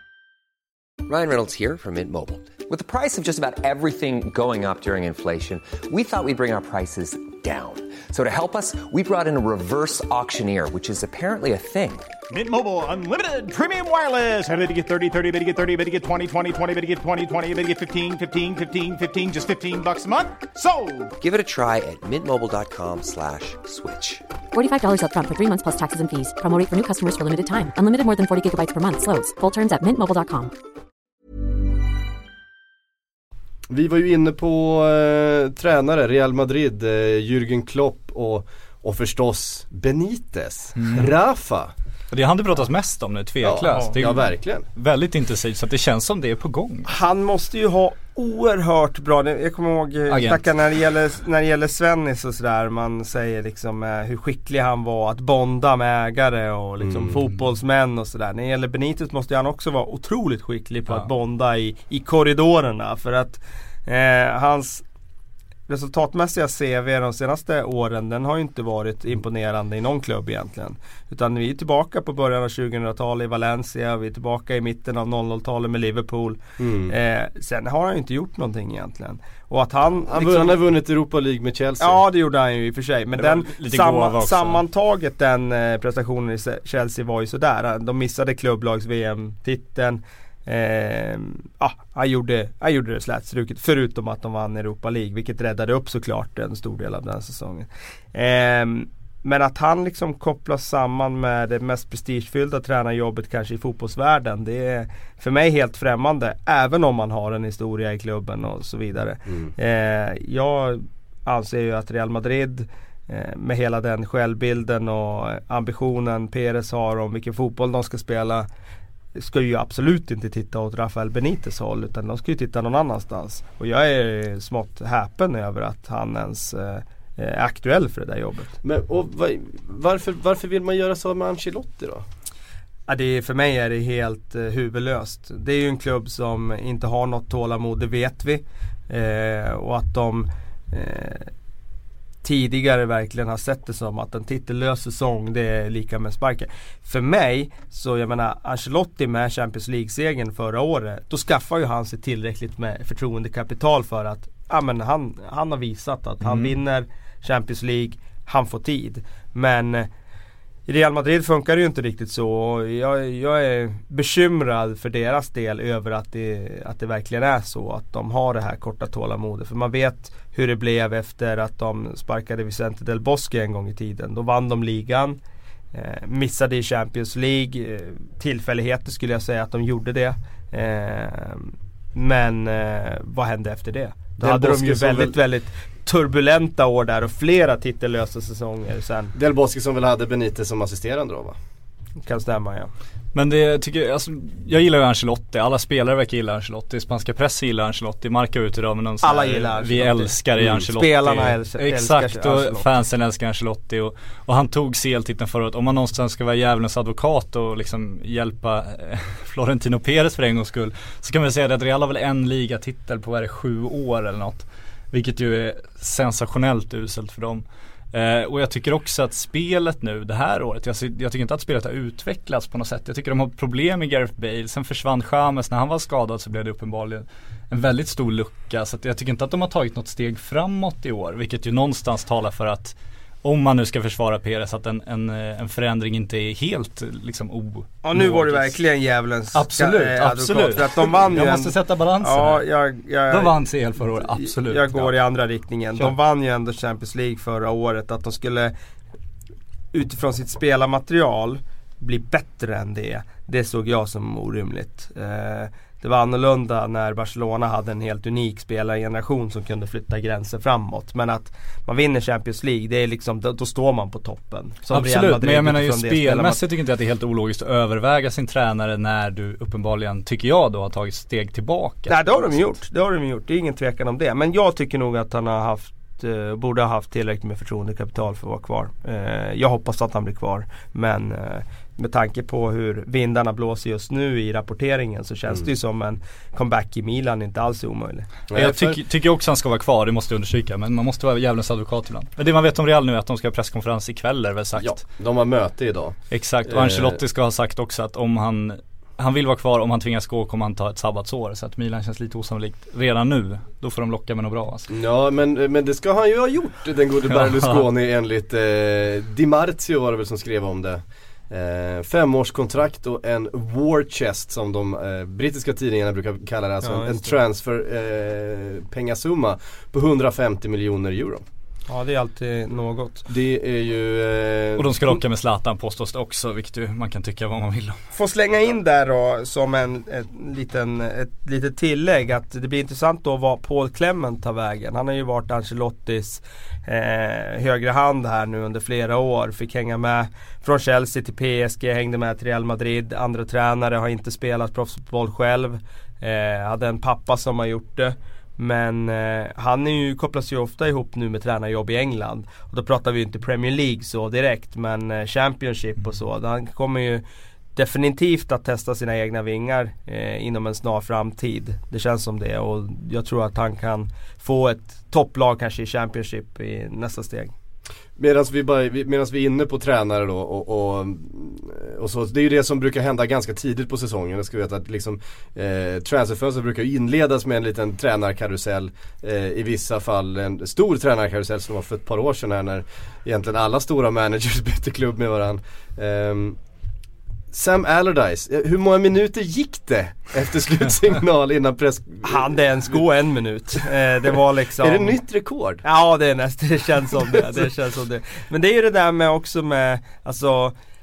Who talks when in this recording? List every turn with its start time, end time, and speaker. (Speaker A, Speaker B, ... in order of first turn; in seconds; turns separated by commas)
Speaker A: 1.0-12.1, Speaker B: 12.3-21.1, Speaker A: 21.2-24.2, Speaker C: 24.5-30.5, Speaker D: 33.7-41.7, Speaker E: 40.8-41.1, Speaker E: 42.1-46.9, Speaker D: 43.4-44.6, Speaker F: 46.9-64.8, Speaker E: 50.1-50.5, Speaker D: 56.8-57.2, Speaker F: 65.7-80.6, Speaker D: 76.6-76.9, Speaker D: 80.1-82.0, Speaker F: 81.8-118.5, Speaker E: 83.2-84.6, Speaker D: 109.3-109.5, Speaker F: 119.2-128.5, Speaker D: 128.6-132.0, Speaker F: 132.9-141.3, Speaker F: 142.2-159.9, Speaker E: 156.2-156.5, Speaker F: 160.7-175.2, Speaker F: 175.7-189.1, Speaker D: 184.2-185.2, Speaker D: 189.1-191.3, Speaker F: 192.0-192.7, Speaker E: 193.1-238.6, Speaker F: 199.0-202.7, Speaker D: 200.4-200.7, Speaker F: 237.8-248.5, Speaker E: 239.3-242.4, Speaker E: 243.1-244.9, Speaker F: 249.7-266.4, Speaker E: 264.7-272.5, Speaker F: 271.9-288.1, Speaker D: 288.3-288.8, Speaker E: 288.3-294.8, Speaker D: 294.6-297.0, Speaker E: 296.1-304.7, Speaker D: 304.7-321.2, Speaker E: 307.1-307.6, Speaker F: 316.6-317.1, Speaker F: 321.7-323.1, Speaker D: 323.1-324.9, Speaker E: 324.6-327.8, Speaker F: 327.9-357.0, Speaker F: 357.6-367.3, Speaker D: 368.0-386.4, Speaker D: 387.3-392.8, Speaker F: 392.0-395.0, Speaker D: 394.6-395.6, Speaker F: 395.6-400.5